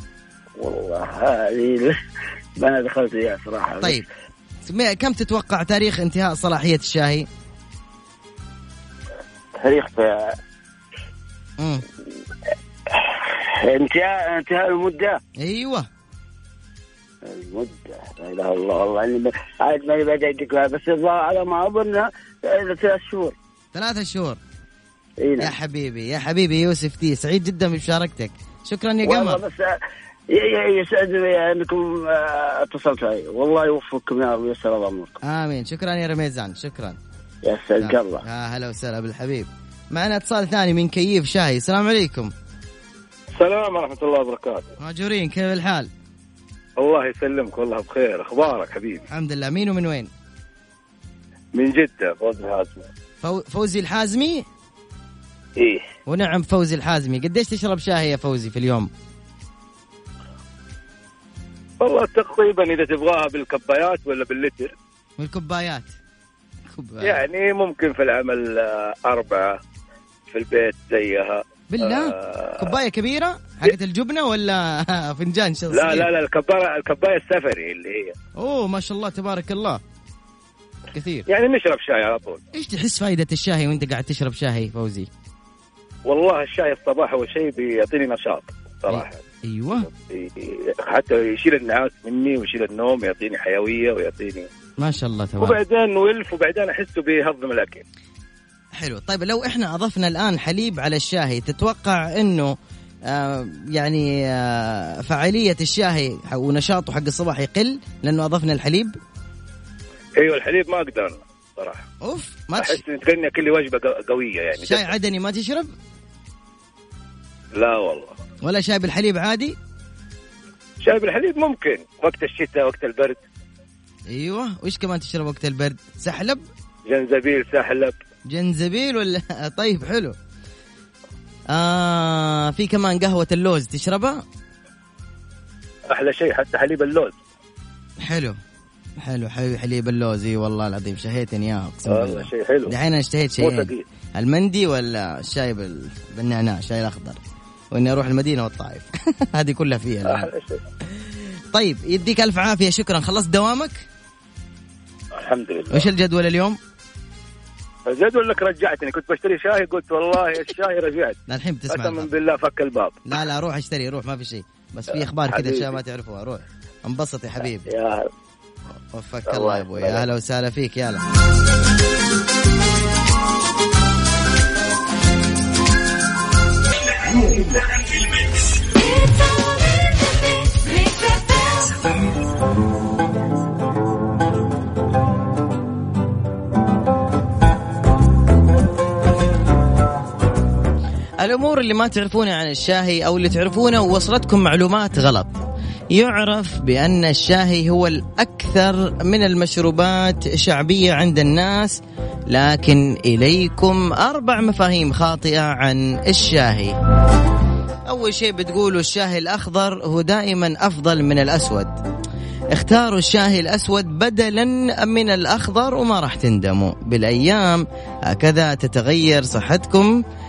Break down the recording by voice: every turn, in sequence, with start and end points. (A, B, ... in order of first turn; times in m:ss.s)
0:00.6-0:02.0 A
0:02.6-0:04.1 A
0:04.7-0:07.3 B
0:09.6-0:10.4 A
0:13.0-0:15.2 A
0:15.4-0:15.9 B
0:17.2-0:23.4 A
0:23.7-0:24.4 B
0:25.2-0:25.5 A
0:25.4-0:29.4 B
0:29.0-0:35.2 A
0:35.2-0:37.0 B
0:37.4-0:38.2 A
0:37.8-0:42.3 B
0:43.3-0:44.7 C
0:44.8-0:45.9 B
0:46.8-0:49.0 C
0:49.1-0:50.1 B
0:51.5-0:52.9 C
0:53.2-0:54.5 B
0:55.6-0:55.9 C
0:56.1-0:58.9 B
1:01.8-1:04.7 C
1:05.2-1:06.0 B
1:06.7-1:07.2 B
1:07.0-1:09.6 C
1:10.3-1:12.7 C
1:11.7-1:16.1 B
1:15.7-1:18.2 C
1:18.4-1:19.8 B
1:20.9-1:21.3 B
1:21.3-1:22.4 C
1:22.5-1:25.1 B
1:26.1-1:29.2 C
1:28.9-1:29.9 B
1:29.8-1:34.5 C
1:34.8-1:35.6 B
1:35.4-1:37.8 C
1:38.8-1:42.6 B
1:43.1-1:48.9 B
1:50.2-1:51.8 C
1:52.0-1:52.8 B
1:52.6-1:54.9 C
1:54.6-1:55.7 B
1:57.6-1:58.2 C
1:58.4-1:59.6 B
2:00.8-2:03.2 C
2:04.1-2:06.4 B
2:06.9-2:08.0 C
2:08.3-2:10.2 B
2:11.5-2:14.2 B
2:15.9-2:17.2 C
2:18.0-2:18.4 B
2:19.0-2:27.2 B
2:21.9-2:22.7 C
2:23.4-2:23.8 C
2:27.7-2:30.3 B
2:30.0-2:30.6 C
2:31.5-2:33.9 B
2:35.1-2:35.9 C
2:35.7-2:36.6 B
2:37.8-2:43.0 C
2:41.3-2:42.1 B
2:43.1-2:47.7 B
2:44.9-2:45.8 C
2:47.7-2:48.1 C
2:48.7-2:51.0 B
2:49.3-2:50.0 C
2:57.3-2:57.8 C
3:11.2-3:15.3 B
3:15.9-3:21.8 B
3:22.3-3:26.8 B
3:27.9-3:31.8 B
3:32.5-3:39.9 B